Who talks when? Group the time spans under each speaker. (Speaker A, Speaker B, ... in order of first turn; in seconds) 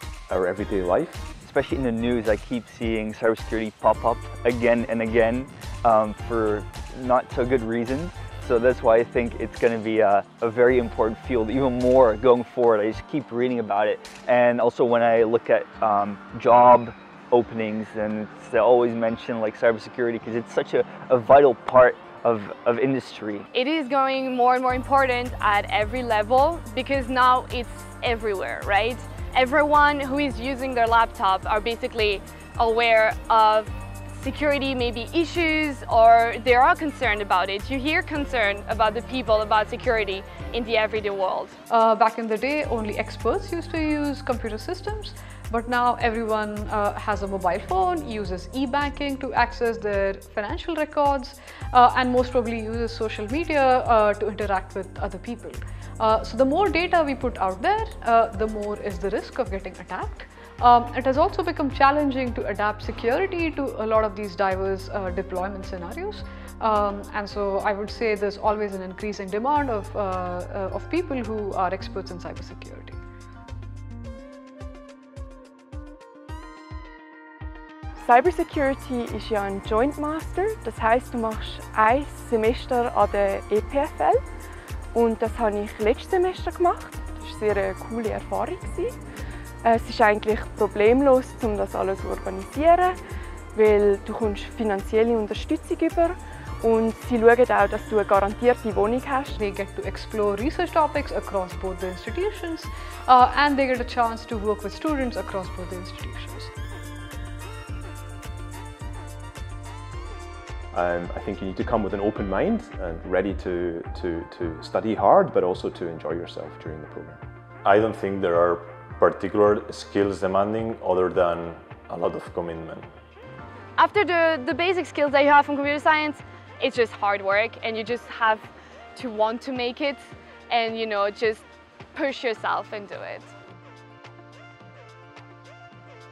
Speaker A: 0.3-1.3, 110.7-117.2
Speaker B: 1.4-23.5
Speaker C: 23.5-41.6, 123.8-131.4, 131.9-133.3
Speaker D: 41.7-73.0, 99.4-106.5
Speaker E: 78.0-84.2, 84.9-89.0, 89.6-93.0, 93.5-99.4
Speaker F: 117.6-122.9